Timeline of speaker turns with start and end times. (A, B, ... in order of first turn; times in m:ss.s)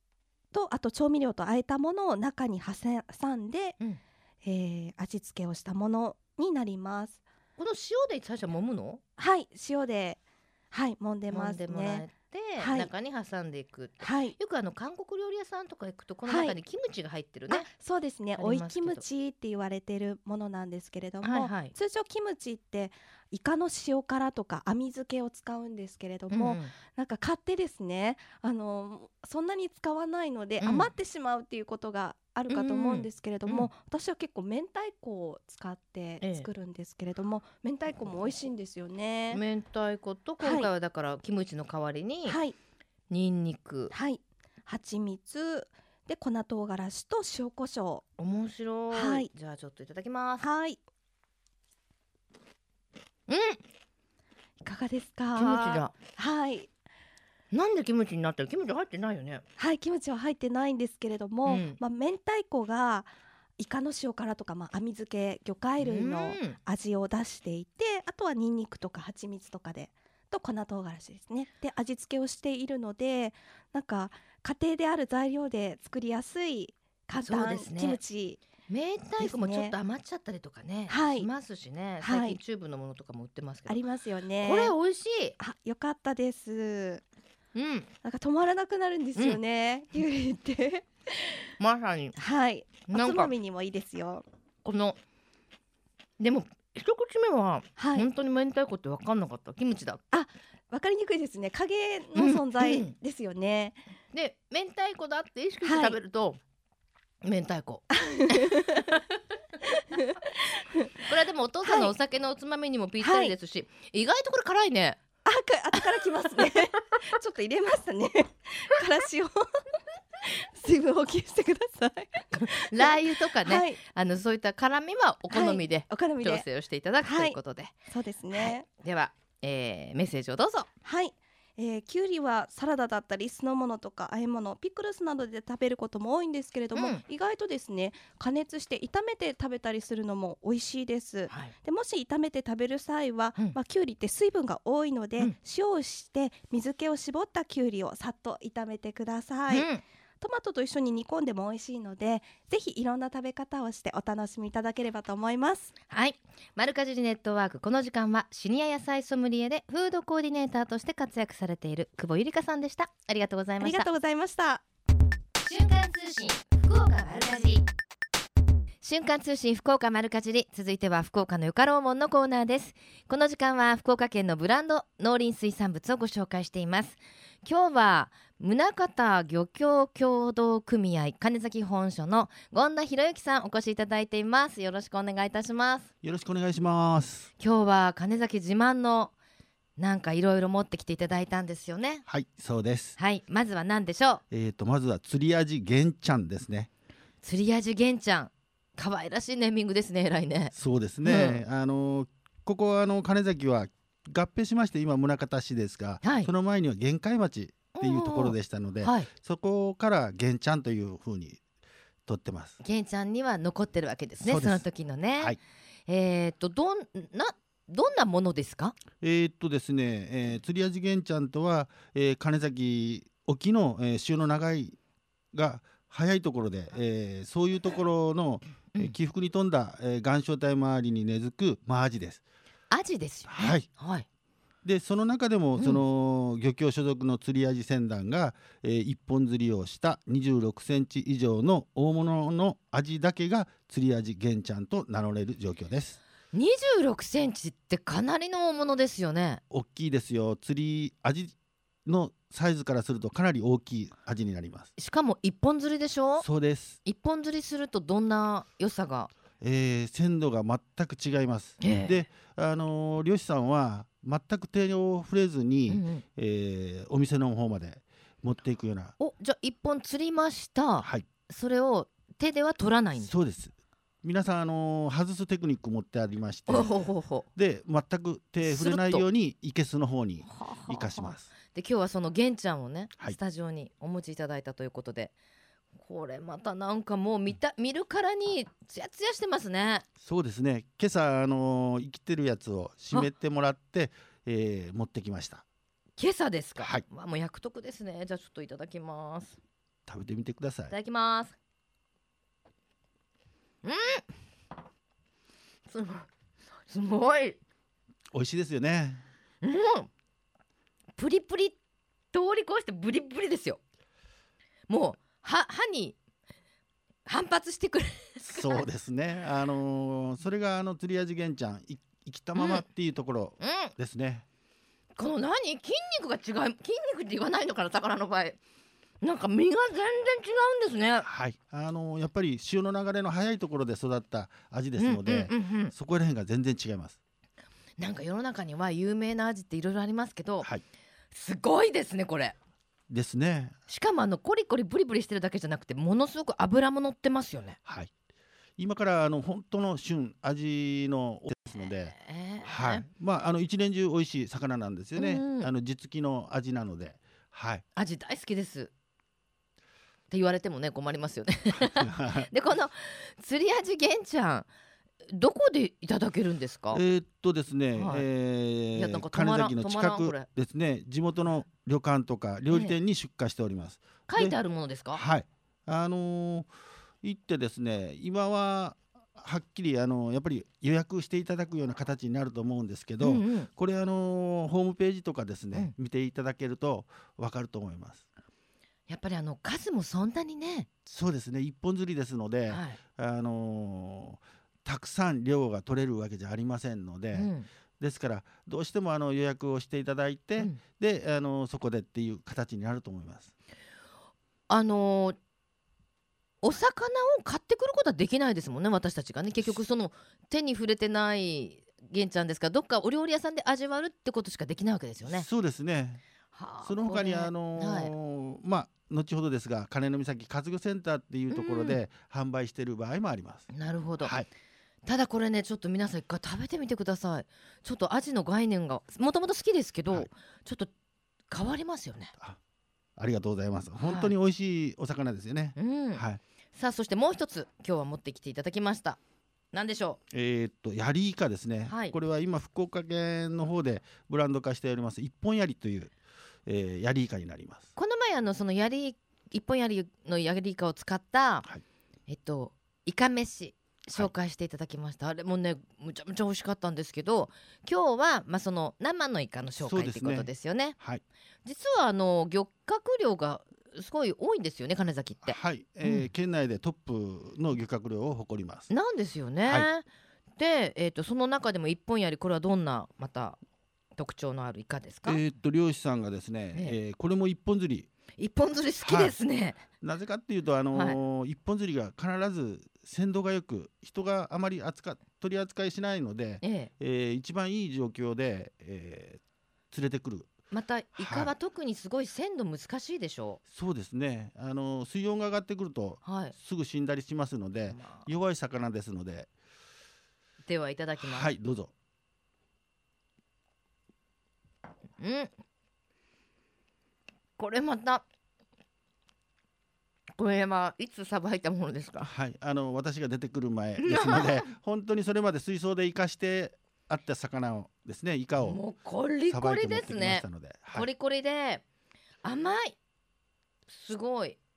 0:00.5-0:03.8 A
0:04.4-0:07.2 A
0:07.6-0:09.0 B
0:09.2-0:10.2 A
0:10.7-0:12.1 A
0:11.3-0:17.7 B
0:12.6-0:12.9 A
0:14.0-0:14.4 A
0:16.3-0:16.6 A
0:17.5-0:39.4 A
0:18.4-0:19.0 B
0:21.2-0:21.7 B
0:26.3-0:26.7 B
0:30.6-0:30.9 B
0:32.5-0:33.7 B
0:36.2-0:36.5 B
0:39.3-0:42.4 B
0:40.4-0:40.7 A
0:42.3-0:42.6 A
0:43.1-0:43.9 B
0:43.9-0:48.0 A
0:48.2-0:50.5 B
0:48.9-0:49.3 A
0:50.4-0:50.8 A
0:53.3-0:53.6 B
0:54.6-0:56.7 A
0:55.4-0:55.9 B
0:57.5-0:59.4 B
0:59.6-1:18.4 A
1:01.5-1:01.8 B
1:05.8-1:06.6 B
1:17.2-1:18.0 B
1:18.7-1:23.8 B
1:19.2-1:19.8 A
1:20.9-1:21.3 A
1:22.0-1:22.4 A
1:23.7-1:24.8 A
1:24.4-1:25.4 B
1:25.4-1:27.0 A
1:27.6-1:27.9 B
1:28.0-1:31.5 A
1:31.6-1:32.2 B
1:32.2-1:34.2 A
1:32.9-1:33.3 B
1:34.6-1:35.0 B
1:36.2-1:40.0 B
1:37.8-1:38.1 A
1:40.1-1:43.8 A
1:42.2-1:42.9 B
1:44.1-1:46.4 B
1:45.6-1:46.0 A
1:47.2-1:49.2 B
1:47.9-1:49.0 A
1:49.9-1:51.0 A
1:51.0-1:55.0 B
1:51.6-1:51.9 A
1:53.0-1:53.4 A
1:55.2-1:59.6 A
2:00.2-2:03.8 A
2:02.3-2:07.7 B
2:05.3-2:06.5 A
2:07.0-2:08.7 A
2:08.3-2:10.7 B
2:10.8-2:29.7 A
2:16.7-2:17.0 B
2:21.3-2:21.5 B
2:29.5-2:29.8 B
2:30.2-2:35.7 A
2:35.9-2:43.9 B
2:43.6-2:44.6 A
2:45.4-2:47.6 B
2:48.8-3:05.9 B
3:06.0-3:07.3 C
3:07.4-3:09.1 B
3:09.8-3:12.0 B
3:12.1-3:13.0 C
3:13.0-3:14.2 B
3:14.3-3:16.7 C
3:17.2-3:21.4 B
3:20.5-3:31.4 C
3:26.0-3:26.3 B
3:27.8-3:29.1 B
3:32.1-3:32.6 C
3:32.6-3:35.4 B
3:34.2-3:34.6 C
3:35.9-3:38.8 B
3:39.0-3:44.8 C
3:45.3-3:52.2 C
3:52.7-3:54.0 B
3:53.3-3:53.7 C
3:54.6-4:06.0 C
3:55.6-3:55.8 B
4:06.3-4:09.4 B
4:09.5-4:11.3 C
4:11.8-4:14.7 C
4:14.8-4:16.3 B
4:16.2-4:16.8 C
4:16.8-4:19.1 B
4:19.4-4:29.0 C
4:21.6-4:22.0 B
4:25.7-4:26.0 B
4:29.0-4:33.1 B
4:30.8-4:31.1 C
4:33.0-4:41.3 C
4:36.5-4:37.3 B
4:38.4-4:39.1 B
4:40.3-4:45.1 B
4:45.8-4:49.8 B
4:50.0-4:55.4 C
4:56.0-4:59.4 B
4:59.9-5:00.7 C
5:00.7-5:01.3 B
5:03.6-5:04.0 B
5:05.7-5:06.1 B
5:06.7-5:07.4 B
5:08.1-5:09.0 C
5:09.4-5:09.9 B
5:11.0-5:11.6 B
5:12.1-5:13.6 B
5:14.7-5:16.0 B
5:17.1-5:18.6 B
5:18.2-5:24.2 C
5:22.4-5:22.6 B
5:23.4-5:23.7 B
5:25.0-5:28.4 B
5:29.0-5:31.1 B
5:31.0-5:37.0 C
5:34.8-5:35.7 B
5:37.8-5:40.5 B
5:41.1-5:42.4 B
5:42.9-5:43.5 C
5:43.7-5:47.6 B
5:47.7-5:47.9 C
5:48.6-5:57.6 C
5:51.6-5:52.9 B
5:55.0-5:55.5 B
5:57.8-5:58.7 B
6:00.1-6:04.5 B
6:01.6-6:02.3 C
6:05.1-6:06.8 B
6:06.7-6:14.4 C
6:07.8-6:08.0 B
6:08.8-6:10.3 B
6:12.5-6:12.8 B
6:14.1-6:15.0 B
6:14.9-6:16.5 C
6:17.0-6:28.0 C
6:23.0-6:23.5 B
6:28.9-6:30.7 B
6:30.9-6:43.3 C
6:32.5-6:32.8 B
6:37.1-6:37.5 B
6:44.5-6:45.2 B
6:46.4-6:55.3 B
6:55.0-6:56.0 C
6:56.3-6:57.9 B
6:56.6-7:03.5 C
7:01.3-7:01.8 B
7:03.5-7:04.1 B
7:04.0-7:04.3 C
7:04.9-7:10.7 B
7:11.3-7:12.1 B
7:13.0-7:16.2 C
7:13.8-7:14.1 B
7:15.6-7:19.0 B
7:19.5-7:20.0 B
7:20.1-7:25.9 C
7:21.7-7:22.0 B
7:26.5-7:27.7 C
7:27.8-7:31.5 B
7:32.1-7:40.8 B
7:39.6-7:41.0 C
7:41.4-7:46.1 B
7:45.2-7:48.7 C
7:48.7-7:49.8 B
7:50.4-7:53.4 B
7:54.0-7:55.2 B
7:55.0-7:57.9 C
7:58.2-7:59.6 B
7:58.8-7:59.2 C
7:59.8-8:10.3 C
8:00.7-8:01.0 B
8:06.4-8:06.7 B
8:10.5-8:13.4 B
8:11.0-8:11.3 C
8:13.5-8:19.3 C
8:16.0-8:16.3 B
8:17.7-8:18.1 B
8:20.4-8:21.3 B
8:21.0-8:21.7 C
8:25.0-8:25.3 B
8:27.4-8:28.0 B
8:30.2-8:32.1 B
8:32.0-8:38.6 C
8:33.8-8:34.5 B
8:38.4-8:41.6 B
8:39.3-8:40.9 C
8:42.2-8:42.8 B
8:43.7-8:44.4 B